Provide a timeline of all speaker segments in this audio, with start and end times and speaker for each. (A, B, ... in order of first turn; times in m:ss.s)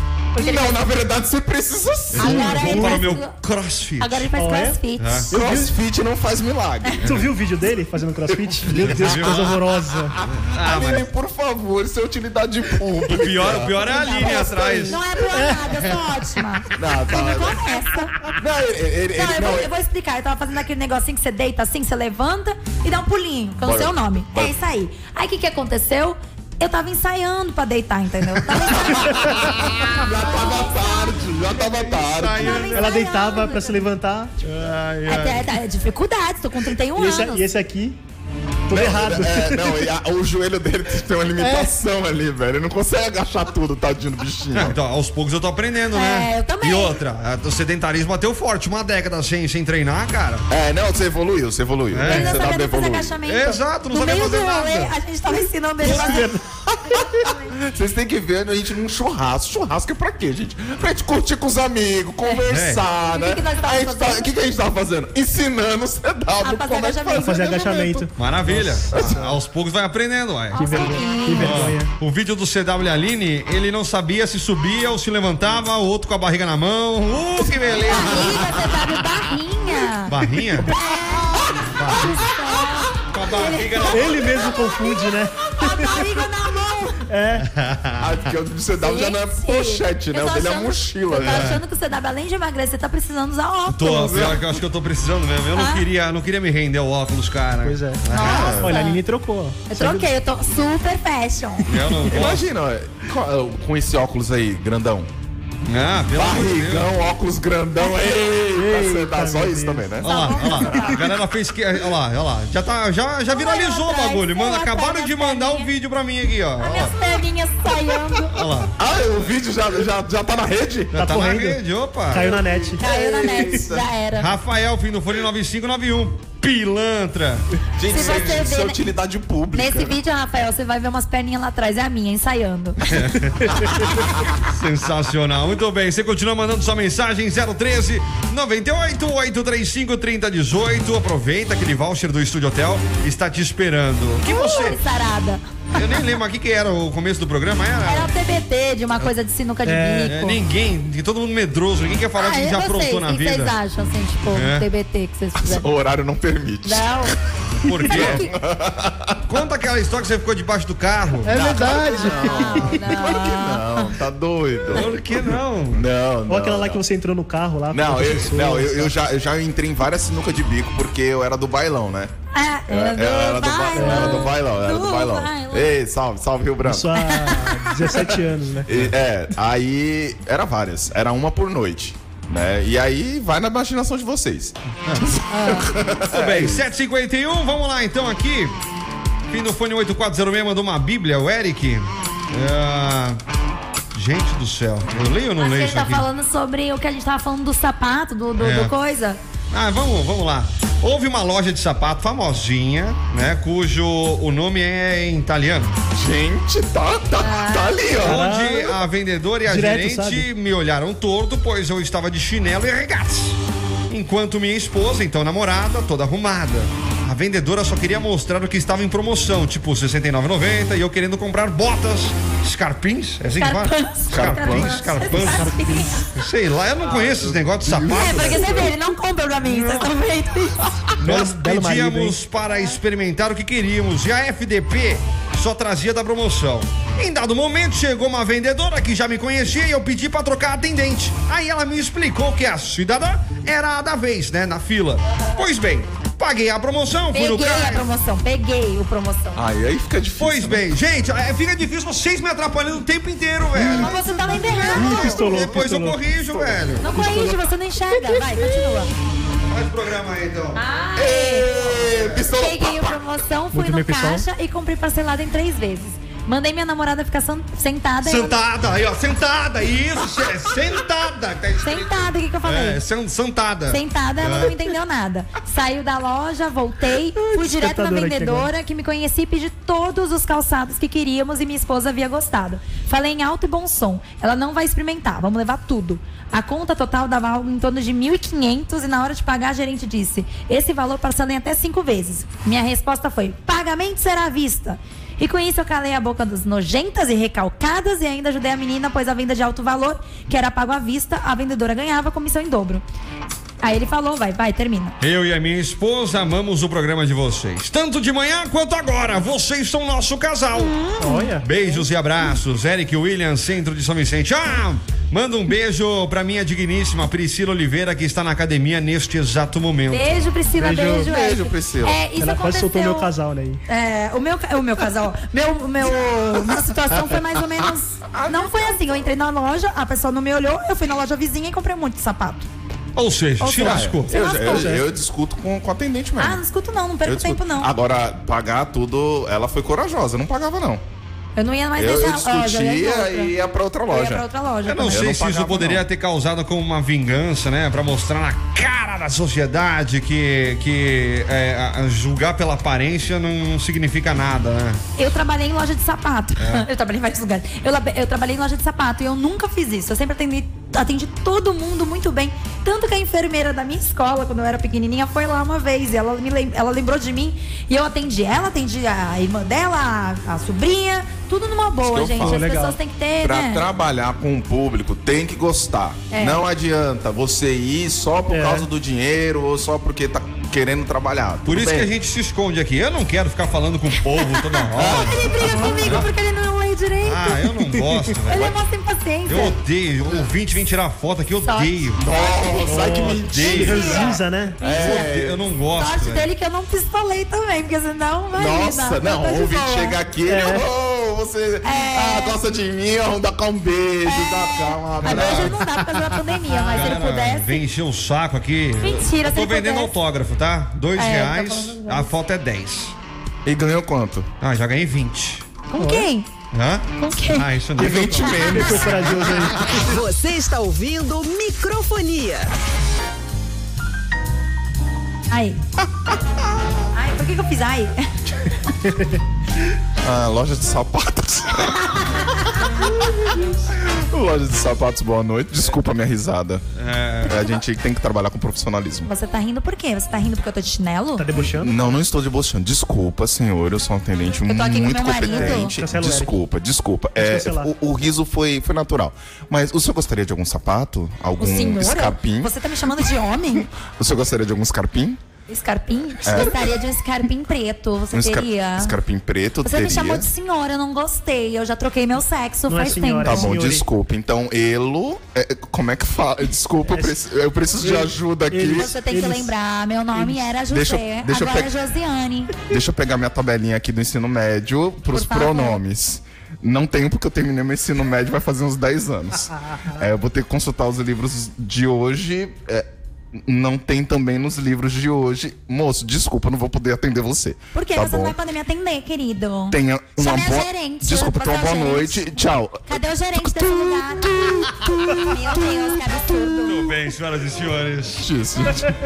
0:00.4-0:00.8 A
0:00.4-0:03.0 B
0:02.1-0:04.3 C
0:02.2-0:03.3 A
0:04.0-0:05.3 A
0:04.4-0:04.8 D
0:05.0-0:05.3 C
0:05.3-0:05.8 D
0:05.3-0:07.1 B
0:07.0-0:10.2 D
0:08.3-0:14.5 B
0:08.8-0:09.6 C
0:10.5-0:11.1 C
0:13.1-0:15.0 C
0:13.8-0:18.2 A
0:14.6-0:15.6 D
0:16.8-0:17.6 B
0:18.4-0:19.7 B
0:19.2-0:33.9 A
0:23.6-0:24.5 B
0:28.5-0:32.8 B
0:31.9-0:33.0 C
0:32.8-0:34.4 D
0:34.4-0:35.5 C
0:35.1-0:37.5 A
0:36.9-0:38.0 D
0:38.7-0:39.8 D
0:38.7-0:44.8 B
0:41.4-0:41.7 D
0:44.5-0:50.4 C
0:45.9-0:47.0 A
0:50.5-0:53.2 B
0:51.9-0:52.5 C
0:52.0-0:56.3 A
0:53.3-0:55.0 C
0:55.8-0:56.4 D
0:56.7-1:08.1 B
0:56.8-0:57.5 A
1:02.5-1:02.8 C
1:03.0-1:04.3 A
1:06.4-1:07.4 A
1:07.2-1:09.4 D
1:08.2-1:18.6 C
1:08.9-1:09.2 B
1:10.5-1:11.7 A
1:10.5-1:11.9 D
1:17.5-1:18.8 B
1:17.9-1:20.1 A
1:20.1-1:20.8 C
1:20.7-1:27.0 A
1:20.9-1:22.8 B
1:21.6-1:22.3 C
1:23.1-1:24.5 C
1:23.9-1:26.2 D
1:27.1-1:27.5 D
1:27.4-1:28.1 C
1:28.0-1:31.6 B
1:28.8-1:34.3 A
1:31.2-1:31.6 C
1:33.7-1:38.7 C
1:33.9-1:34.6 B
1:35.6-1:35.9 A
1:37.6-1:38.0 D
1:38.1-1:39.0 A
1:38.2-1:38.8 B
1:38.6-1:40.1 D
1:39.7-1:41.8 A
1:41.7-1:42.5 C
1:42.1-1:45.1 B
1:45.6-1:46.9 C
1:46.1-1:50.8 B
1:48.5-1:49.9 D
1:50.0-1:51.1 A
1:50.0-1:57.0 C
1:53.3-1:55.7 A
1:56.6-1:58.4 A
1:58.4-1:58.7 C
1:58.7-2:01.0 B
2:00.9-2:02.4 C
2:01.0-2:01.6 D
2:02.1-2:02.9 D
2:02.2-2:03.9 B
2:02.8-2:04.3 A
2:04.2-2:08.5 C
2:07.8-2:10.0 B
2:07.9-2:08.9 A
2:09.5-2:12.8 A
2:12.9-2:13.7 C
2:13.8-2:14.3 B
2:14.4-2:24.8 C
2:24.2-2:25.9 A
2:25.7-2:28.1 C
2:27.8-2:30.4 A
2:29.6-2:30.2 D
2:30.1-2:33.6 C
2:32.2-2:35.7 A
2:34.3-2:34.7 C
2:35.4-2:37.1 B
2:36.6-2:37.2 A
2:37.6-2:38.3 C
2:37.8-2:39.2 B
2:37.9-2:38.3 A
2:39.2-2:41.9 C
2:41.2-2:43.2 D
2:41.3-2:45.0 B
2:41.6-2:44.0 A
2:44.7-2:45.8 C
2:45.7-2:46.8 B
2:46.3-2:48.9 D
2:47.7-2:52.1 B
2:52.3-2:55.7 A
2:52.7-2:57.0 B
2:53.7-2:54.3 D
2:56.6-2:58.7 D
2:57.0-2:57.6 A
2:58.7-3:06.7 B
3:05.3-3:05.7 A
3:06.1-3:08.5 C
3:09.3-3:13.2 C
3:13.9-3:16.1 C
3:15.4-3:19.2 A
3:18.4-3:18.7 C
3:19.5-3:25.7 C
3:25.9-3:28.3 B
3:27.2-3:27.9 A
3:28.0-3:33.4 C
3:28.0-3:28.8 D
3:29.5-3:30.3 D
3:33.9-3:45.6 C
3:43.4-3:46.1 A
3:44.1-3:45.3 B
3:46.2-3:48.6 C
3:46.8-3:48.8 B
3:47.9-3:51.0 A
3:49.5-3:49.8 C
3:51.0-3:52.2 D
3:51.0-4:07.9 C
4:07.1-4:09.4 A
4:09.4-4:10.6 B
4:10.2-4:14.0 C
4:13.6-4:13.9 D
4:13.6-4:15.4 B
4:13.8-4:15.2 A
4:14.8-4:16.0 D
4:14.8-4:16.9 C
4:16.3-4:17.2 B
4:16.8-4:18.9 A
4:16.8-4:17.4 D
4:17.9-4:18.8 B
4:19.5-4:20.6 C
4:20.6-4:21.5 A
4:21.0-4:23.0 B
4:21.7-4:22.2 C
4:22.3-4:28.4 A
4:23.5-4:24.3 D
4:28.0-4:34.6 C
4:31.6-4:32.8 A
4:33.7-5:02.8 A
4:37.2-4:38.5 D
5:03.6-5:05.0 A
5:05.0-5:10.8 C
5:10.6-5:11.3 A
5:11.0-5:11.5 D
5:11.4-5:20.1 C
5:19.9-5:23.1 A
5:20.6-5:21.1 D
5:20.6-5:22.0 B
5:22.2-5:23.6 D
5:23.7-5:32.5 A
5:26.0-5:26.6 B
5:28.1-5:28.8 B
5:33.0-5:34.1 C
5:33.4-5:34.8 A
5:33.5-5:36.4 B
5:34.4-5:34.8 D
5:36.2-5:37.7 A
5:37.0-5:40.8 B
5:41.4-5:43.4 A
5:41.8-5:44.3 B
5:43.9-5:45.1 A
5:44.7-5:54.8 C
5:44.8-5:45.8 B
5:55.0-6:13.7 A
5:56.4-5:56.7 C
6:11.8-6:12.5 B
6:12.2-6:12.8 D
6:13.2-6:21.9 B
6:16.1-6:16.4 A
6:18.3-6:18.7 D
6:21.5-6:26.1 C
6:24.0-6:27.4 A
6:24.8-6:26.1 B
6:27.0-6:28.5 C
6:27.5-6:28.0 D
6:28.3-6:29.6 A
6:29.3-6:32.0 C
6:31.4-6:35.1 A
6:32.0-6:35.4 B
6:32.7-6:34.6 D
6:33.3-6:34.1 C
6:34.7-6:36.3 C
6:35.7-6:40.0 A
6:38.3-6:46.2 B
6:40.3-6:40.7 D
6:41.6-6:42.4 A
6:44.1-6:47.6 A
6:45.0-6:45.6 C
6:46.5-6:53.0 C
6:48.8-6:50.0 A
6:51.0-6:52.1 A
6:53.4-6:54.3 B
6:54.4-6:55.5 C
6:55.7-6:56.3 A
6:55.8-6:56.1 D
6:56.5-6:59.0 C
6:57.0-6:57.5 A
6:57.8-7:00.0 B
6:57.8-6:59.9 D
6:59.8-7:02.5 E
7:05.3-7:05.6 A
7:05.8-7:06.9 B
7:06.9-7:08.1 A
7:08.8-7:09.2 D
7:10.0-7:16.6 B
7:16.8-7:17.5 C
7:17.2-7:19.1 B
7:19.1-7:21.3 A
7:21.2-7:22.0 D
7:21.4-7:32.5 B
7:24.5-7:25.7 A
7:25.3-7:26.4 D
7:27.2-7:27.7 D
7:31.4-7:33.7 A
7:33.6-7:35.2 B
7:35.5-7:39.0 A
7:36.2-7:36.8 B
7:38.1-7:40.3 B
7:39.6-7:43.6 A
7:42.7-7:43.8 D
7:43.2-7:48.9 B
7:46.9-7:47.2 D
7:47.8-7:49.5 D
7:48.7-7:52.6 A
7:50.1-7:50.5 D
7:50.7-7:51.8 B
7:52.6-8:08.4 B
7:55.1-7:55.8 A
7:59.7-8:00.0 D
8:07.7-8:16.9 A
8:09.7-8:16.8 B
8:16.6-8:18.3 C
8:18.2-8:18.9 B